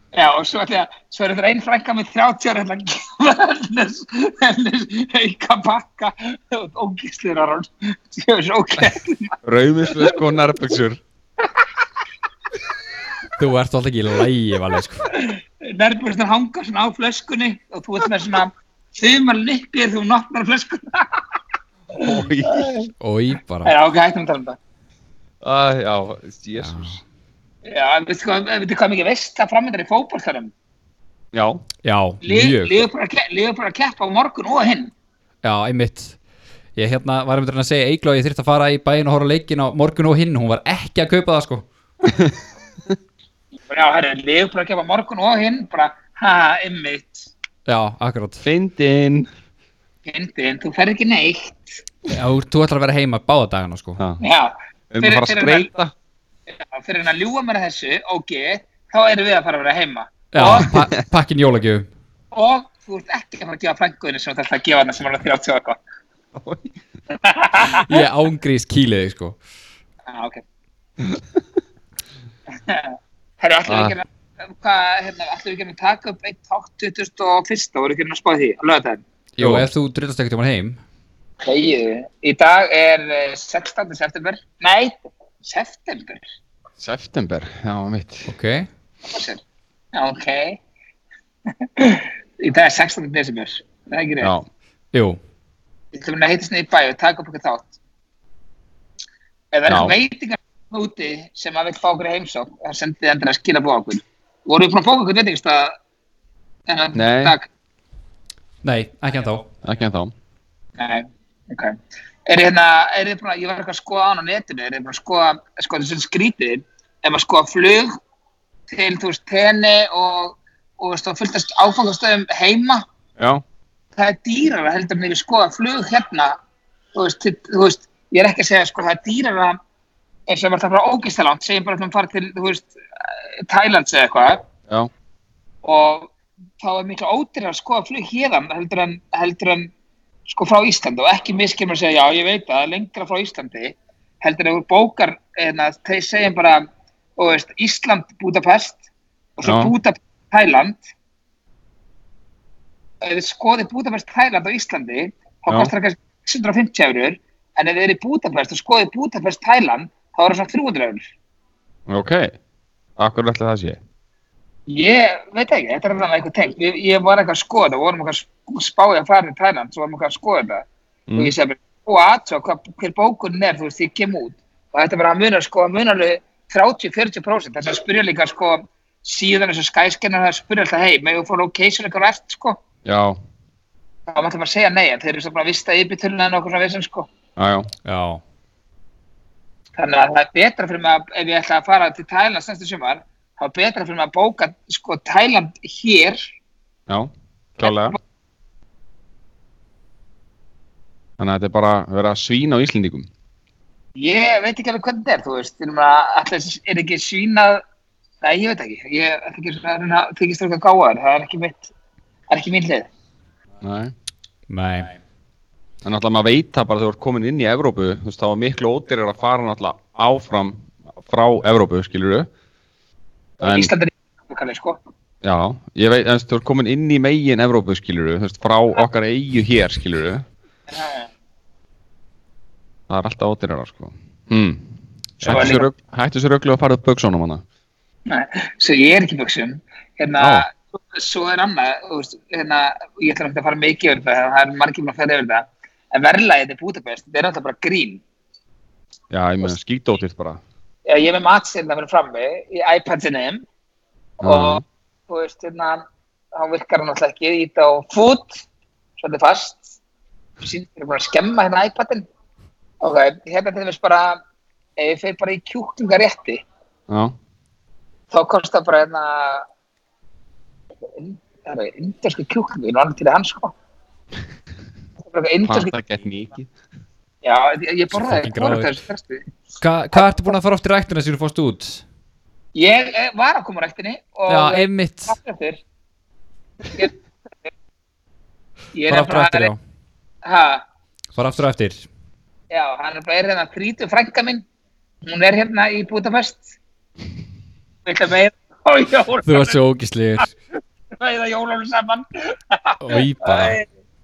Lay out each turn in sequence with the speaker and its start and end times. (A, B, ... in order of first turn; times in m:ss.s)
0:00.1-0:09.4 A
0:09.4-0:11.0 B
0:09.9-0:10.2 A
0:13.4-0:15.1 C
0:15.1-0:21.2 A
0:22.0-0:22.9 A
0:22.0-0:22.8 B
0:23.0-0:23.7 C
0:23.6-0:24.6 A
0:25.4-0:27.0 B
0:26.6-0:26.9 C
0:27.7-0:30.5 A
0:31.3-0:31.6 B
0:31.8-0:32.8 C
0:32.2-0:34.9 A
0:35.4-0:36.2 C
0:36.8-0:41.6 C
0:42.0-0:42.3 B
0:43.7-0:47.3 A
0:47.7-0:48.4 C
0:48.4-0:49.3 B
0:50.0-0:51.8 A
0:52.1-0:54.0 C
0:54.0-0:54.2 B
0:54.2-0:55.7 A
0:54.9-0:55.9 B
0:56.5-1:00.7 A
1:00.3-1:01.9 C
1:00.5-1:00.9 B
1:02.3-1:05.8 A
1:06.4-1:06.8 B
1:07.2-1:08.0 A
1:07.7-1:09.4 C
1:10.1-1:10.4 A
1:12.6-1:19.0 A
1:13.7-1:14.0 B
1:19.4-1:20.8 C
1:19.4-1:19.7 B
1:21.4-1:26.3 A
1:26.8-1:28.3 B
1:28.3-1:28.7 C
1:29.0-1:29.4 A
1:29.9-1:30.6 A
1:31.6-1:34.3 A
1:34.2-1:34.5 B
1:34.9-1:35.2 C
1:35.9-1:37.8 A
1:39.5-1:45.8 A
1:39.7-1:40.0 B
1:46.7-1:47.5 A
1:47.0-1:47.4 B
1:48.6-1:49.5 C
1:49.6-1:50.1 B
1:50.8-1:57.9 A
1:58.7-2:02.8 A
2:03.2-2:03.4 B
2:04.0-2:06.4 A
2:07.0-2:09.6 A
2:10.3-2:14.4 A
2:15.6-2:19.7 A
2:20.3-2:26.6 A
2:27.2-2:28.8 A
2:29.4-2:30.8 A
2:29.4-2:29.7 B
2:33.0-2:41.1 A
2:41.9-2:42.3 B
2:43.0-2:43.8 B
2:44.7-3:02.6 A
2:51.1-2:51.3 B
3:02.8-3:03.2 B
3:04.1-3:07.1 A
3:07.4-3:07.7 B
3:07.8-3:08.2 C
3:09.8-3:16.4 A
3:16.9-3:18.0 B
3:17.6-3:18.0 A
3:21.2-3:23.1 B
3:24.0-3:27.6 A
3:28.2-3:31.7 A
3:32.3-3:32.9 A
3:33.6-3:33.9 B
3:34.5-3:34.9 C
3:35.8-3:42.3 B
3:43.4-3:44.8 A
3:43.4-3:43.7 B
3:45.2-3:50.2 B
3:50.7-3:51.1 A
3:52.9-3:57.4 B
3:55.2-3:55.7 A
3:58.1-4:08.0 A
4:00.2-4:00.4 B
4:09.1-4:10.4 B
4:10.9-4:13.4 A
4:14.2-4:18.4 A
4:14.2-4:14.6 B
4:19.0-4:19.8 A
4:20.4-4:22.1 A
4:22.8-4:24.2 A
4:24.8-4:26.4 A
4:26.9-4:27.2 B
4:28.1-4:29.5 A
4:30.9-4:33.5 A
4:35.0-4:35.7 A
4:35.4-4:36.5 B
4:37.2-4:39.3 A
4:37.9-4:38.7 C
4:39.6-4:41.8 C
4:39.9-4:40.3 A
4:42.6-4:45.6 A
4:44.3-4:45.2 C
4:48.7-4:49.5 A
4:48.9-4:49.6 C
4:50.2-4:50.6 A
4:51.2-4:51.9 C
4:52.5-4:54.4 A
4:55.0-4:56.6 A
4:57.8-4:59.6 A
4:59.2-5:00.3 C
5:01.0-5:03.6 A
5:02.8-5:03.6 C